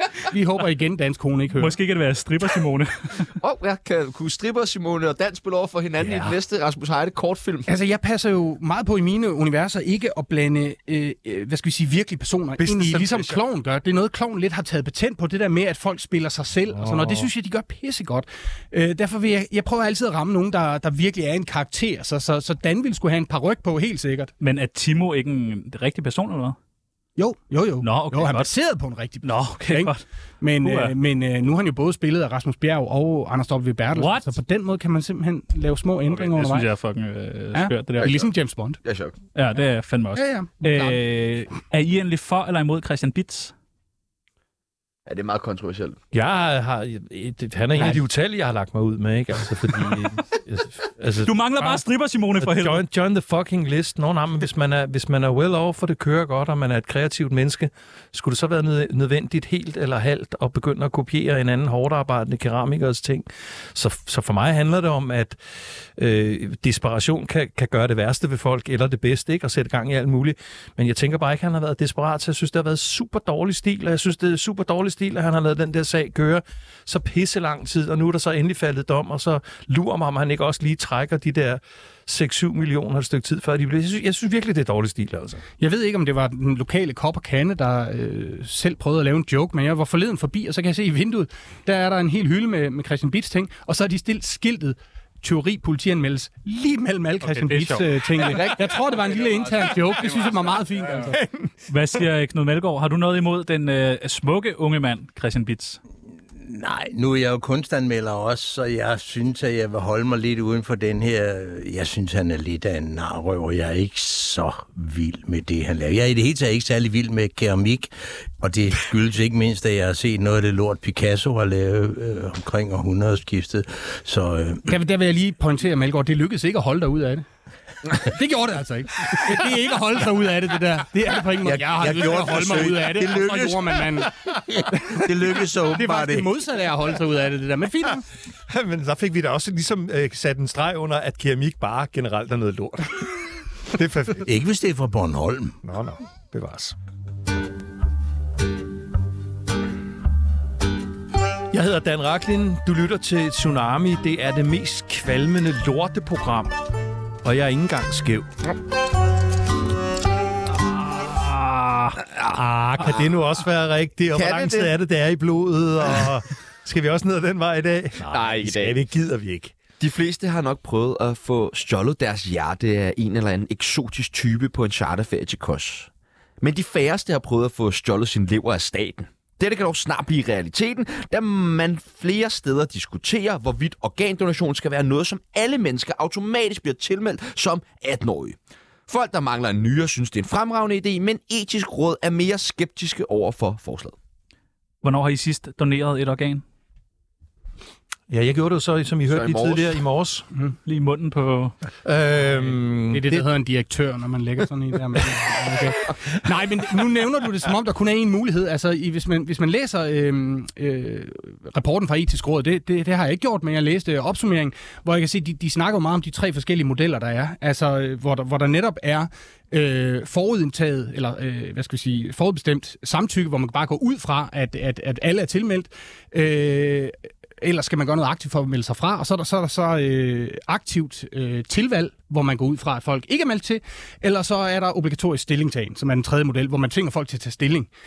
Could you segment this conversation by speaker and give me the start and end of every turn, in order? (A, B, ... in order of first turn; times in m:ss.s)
0:00.3-0:01.8 A
0:01.6-0:03.3 B
0:03.4-0:07.7 C
0:06.0-0:06.3 D
0:07.7-0:24.3 A
0:12.6-0:13.4 D
0:16.7-0:17.3 D
0:24.4-0:26.6 B
0:27.2-0:36.7 A
0:27.8-0:28.5 B
0:29.2-0:30.0 B
0:30.6-0:30.9 B
0:34.0-0:34.4 B
0:36.1-0:38.2 B
0:37.5-0:38.8 A
0:38.8-0:39.2 C
0:39.4-0:43.5 B
0:40.2-0:41.0 A
0:45.1-0:46.0 C
0:46.1-0:51.8 D
0:51.2-0:52.8 B
0:52.4-1:05.4 D
1:06.0-1:25.4 D
1:25.6-1:41.2 A
1:37.2-1:38.5 B
1:38.4-1:40.2 C
1:41.7-1:45.8 B
1:46.4-2:04.7 E
2:04.7-2:07.2 A
2:07.9-2:14.1 A
2:11.4-2:16.3 E
2:14.7-2:15.1 A
2:15.7-2:18.0 A
2:18.5-2:24.3 D
2:24.2-2:25.6 E
2:25.6-2:26.8 D
2:31.5-2:36.6 D
2:37.2-2:38.3 D
2:40.9-2:42.0 B
2:42.2-2:49.6 D
2:44.2-2:44.7 C
2:48.1-2:48.8 C
2:49.8-2:55.9 C
2:56.4-3:08.4 C
3:08.9-3:13.9 C
3:14.8-3:16.4 B
3:18.1-3:20.3 D
3:19.1-3:19.7 C
3:20.7-3:21.6 B
3:21.8-3:23.3 D
3:22.9-3:57.7 A